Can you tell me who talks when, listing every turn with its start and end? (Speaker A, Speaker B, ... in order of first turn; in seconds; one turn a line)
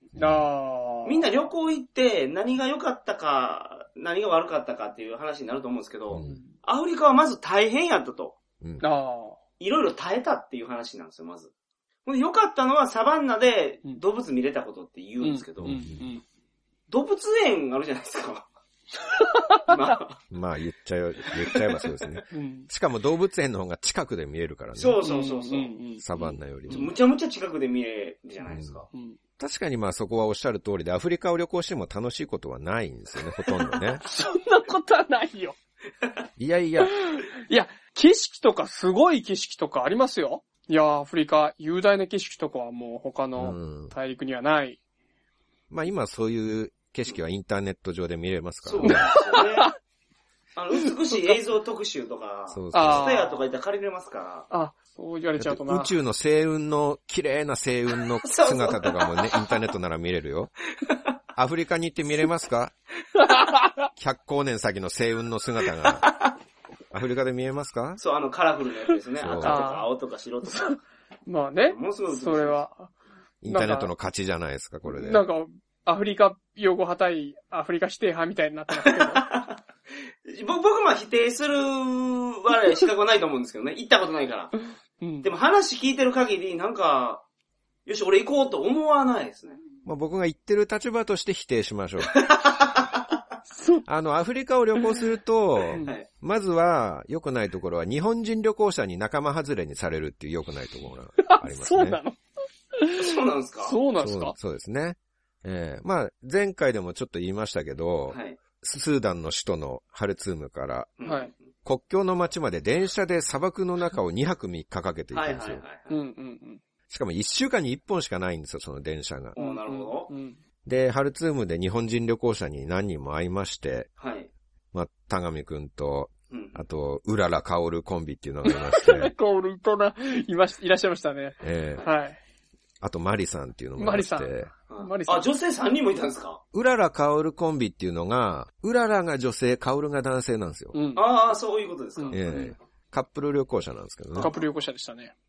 Speaker A: 0.1-0.4
Speaker B: 0.1-1.2
Speaker C: 1.0-8.4
Speaker A: 6.1-6.4
Speaker B: 6.2-6.5
Speaker B: 8.8-9.4
Speaker C: 9.6-11.5
Speaker C: 12.0-15.8
Speaker B: 15.2-16.2
Speaker A: 15.6-16.1
Speaker C: 16.9-18.5
Speaker B: 19.2-19.8
Speaker C: 19.7-20.2
Speaker A: 20.3-25.0
Speaker B: 22.3-22.7
Speaker C: 24.7-28.9
Speaker B: 25.0-26.0
Speaker A: 26.0-26.9
Speaker A: 28.5-28.8
Speaker B: 28.9-29.2
Speaker A: 29.4-34.0
Speaker B: 34.0-35.5
Speaker A: 36.4-36.9
Speaker B: 36.8-44.8
Speaker A: 43.4-43.9
Speaker A: 45.7-49.1
Speaker C: 48.6-49.7
Speaker B: 48.8-49.7
Speaker C: 50.5-54.5
Speaker A: 52.5-53.1
Speaker B: 52.7-53.5
Speaker B: 54.5-55.9
Speaker A: 55.4-60.5
Speaker C: 58.2-59.5
Speaker A: 61.3-62.7
Speaker B: 63.2-63.9
Speaker A: 64.0-66.1
Speaker A: 66.9-68.0
Speaker C: 68.0-70.8
Speaker A: 69.2-69.6
Speaker B: 69.4-69.9
Speaker B: 70.5-72.9
Speaker C: 71.7-72.6
Speaker A: 73.4-75.2
Speaker B: 73.5-73.9
Speaker B: 74.9-79.2
Speaker C: 78.8-79.6
Speaker C: 80.2-84.5
Speaker B: 85.0-85.3
Speaker C: 85.2-87.2
Speaker C: 87.8-89.6
Speaker A: 89.8-92.2
Speaker C: 92.1-93.0
Speaker B: 93.5-93.9
Speaker A: 93.8-102.0
Speaker C: 95.8-96.0
Speaker B: 101.2-102.2
Speaker B: 102.7-104.3
Speaker C: 102.9-103.8
Speaker A: 104.0-110.9
Speaker C: 108.1-108.4
Speaker C: 111.0-111.5
Speaker B: 111.0-111.3
Speaker A: 111.6-115.6
Speaker C: 115.1-116.0
Speaker B: 115.9-116.6
Speaker A: 116.9-119.3
Speaker C: 119.3-120.1
Speaker B: 119.3-120.4
Speaker A: 120.6-123.9
Speaker C: 124.0-124.3
Speaker A: 124.7-129.1
Speaker C: 126.3-126.6
Speaker B: 128.4-132.2
Speaker A: 131.4-131.8
Speaker A: 132.8-134.5
Speaker B: 133.8-135.3
Speaker C: 134.7-136.4
Speaker A: 136.5-140.8
Speaker B: 140.7-141.1
Speaker C: 140.9-142.6
Speaker B: 142.0-142.4
Speaker A: 142.1-144.3
Speaker C: 144.1-144.4
Speaker B: 144.2-145.1